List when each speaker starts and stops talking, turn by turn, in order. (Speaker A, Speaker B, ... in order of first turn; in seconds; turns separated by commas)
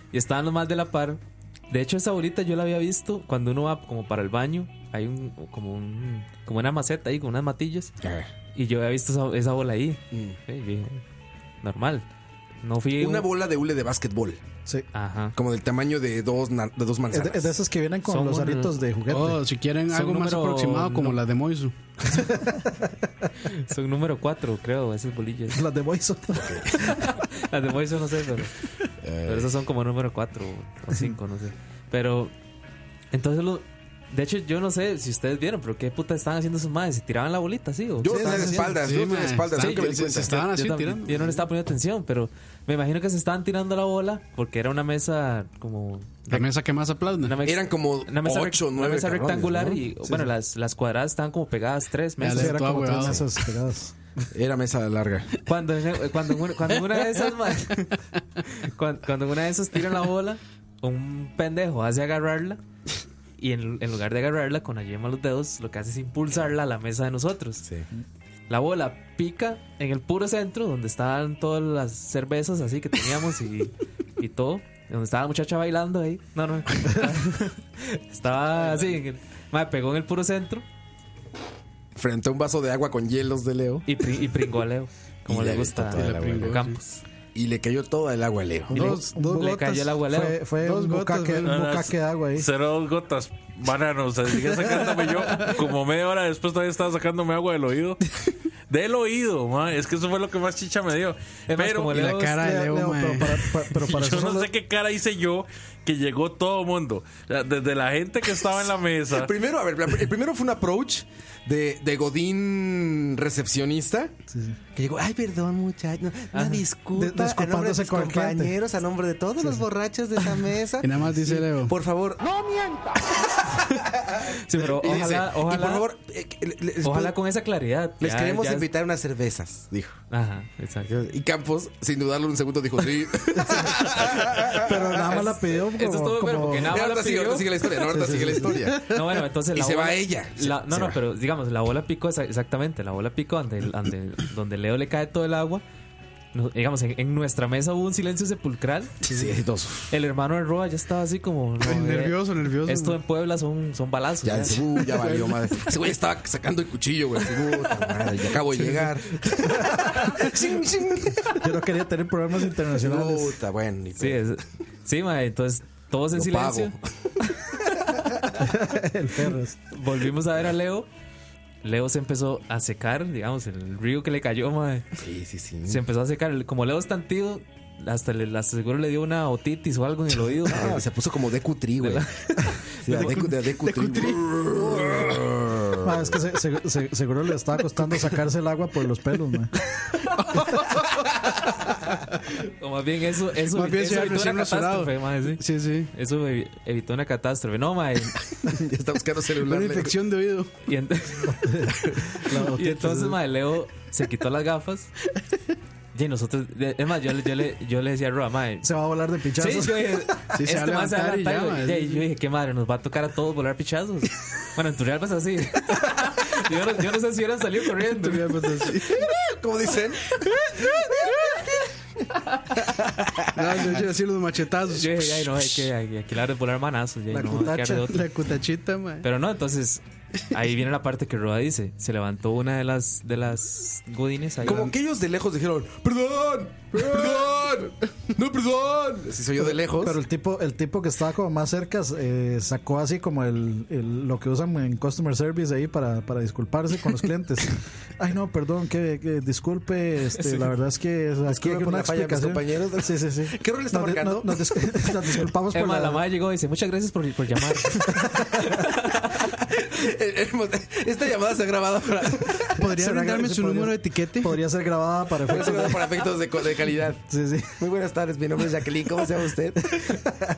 Speaker A: 0.1-7.9, Speaker B: 8.0-8.3, Speaker A: 8.6-11.0, Speaker B: 10.1-10.4, Speaker A: 11.6-12.1, Speaker A: 12.6-13.3, Speaker B: 13.0-14.4, Speaker A: 14.9-15.4, Speaker B: 15.4-17.6, Speaker C: 17.1-19.4, Speaker A: 18.1-18.8, Speaker D: 19.1-21.8, Speaker A: 19.9-21.2, Speaker C: 22.1-22.9, Speaker A: 23.4-25.6, Speaker C: 25.5-26.6, Speaker B: 26.4-27.0, Speaker A: 26.8-28.5, Speaker B: 29.0-29.5, Speaker A: 29.2-32.3, Speaker A: 33.1-38.8, Speaker B: 38.0-40.9, Speaker C: 38.1-38.7, Speaker D: 38.3-41.3, Speaker A: 39.5-46.5, Speaker D: 46.3-47.4, Speaker A: 47.2-52.9, Speaker B: 47.4-49.8, Speaker C: 50.0-50.3, Speaker D: 52.2-53.2, Speaker C: 52.2-54.0, Speaker B: 54.3-55.3, Speaker A: 55.5-57.9, Speaker A: 58.5-62.6, Speaker A: 63.4-67.6, Speaker A: 68.5-80.6, Speaker B: 82.0-83.9, Speaker A: 83.9-87.0, Speaker B: 85.3-86.6, Speaker D: 85.9-86.8, Speaker B: 87.3-89.0, Speaker A: 88.7-90.4, Speaker C: 88.7-92.5, Speaker D: 90.6-91.6, Speaker E: 91.5-98.0, Speaker E: 98.7-102.0, Speaker A: 101.5-102.4, Speaker D: 101.9-103.5, Speaker C: 102.4-104.5, Speaker E: 103.9-109.3, Speaker B: 109.1-114.1, Speaker C: 114.3-114.6, Speaker B: 114.8-127.2, Speaker A: 116.3-116.6, Speaker C: 117.0-118.6, Speaker D: 120.8-121.7, Speaker A: 124.5-125.9, Speaker A: 126.8-128.7, Speaker B: 128.0-130.0, Speaker A: 130.1-130.9, Speaker B: 130.8-135.2, Speaker C: 133.4-133.8, Speaker C: 134.5-136.8, Speaker A: 135.1-137.8, Speaker B: 136.6-138.9, Speaker C: 137.9-138.6, Speaker A: 138.8-145.6, Speaker B: 139.5-141.0, Speaker A: 146.3-149.0, Speaker B: 149.1-149.9, Speaker A: 149.9-154.6, Speaker D: 151.6-153.0, Speaker B: 154.2-161.5, Speaker D: 154.9-155.4, Speaker C: 161.4-163.4, Speaker B: 162.7-164.2, Speaker A: 164.0-166.8, Speaker B: 166.1-166.7, Speaker C: 168.3-169.6, Speaker A: 169.7-170.9, Speaker A: 171.6-174.9, Speaker B: 175.0-175.8, Speaker A: 175.7-180.8, Speaker B: 180.4-182.1, Speaker A: 181.8-183.2, Speaker B: 182.8-185.9, Speaker D: 183.1-184.3, Speaker C: 185.8-189.5, Speaker A: 192.4-198.2, Speaker D: 193.5-195.9, Speaker B: 198.4-199.9, Speaker D: 199.4-200.5, Speaker A: 200.7-201.5, Speaker C: 201.3-203.2, Speaker A: 202.3-204.9, Speaker A: 205.9-208.7, Speaker C: 208.6-210.1, Speaker A: 209.4-218.4, Speaker D: 210.3-212.1, Speaker D: 217.8-219.0, Speaker B: 218.8-221.5, Speaker B: 222.7-223.8, Speaker D: 223.3-225.7, Speaker A: 224.7-228.1, Speaker C: 227.1-227.9, Speaker D: 227.9-229.1, Speaker A: 229.0-234.7, Speaker B: 234.4-240.0, Speaker D: 236.8-237.2, Speaker C: 239.7-256.0, Speaker B: 251.3-255.2, Speaker A: 255.5-259.1, Speaker B: 259.2-262.7, Speaker D: 262.6-264.4, Speaker C: 262.6-266.1, Speaker B: 265.2-267.0, Speaker C: 267.1-267.6, Speaker B: 267.6-270.2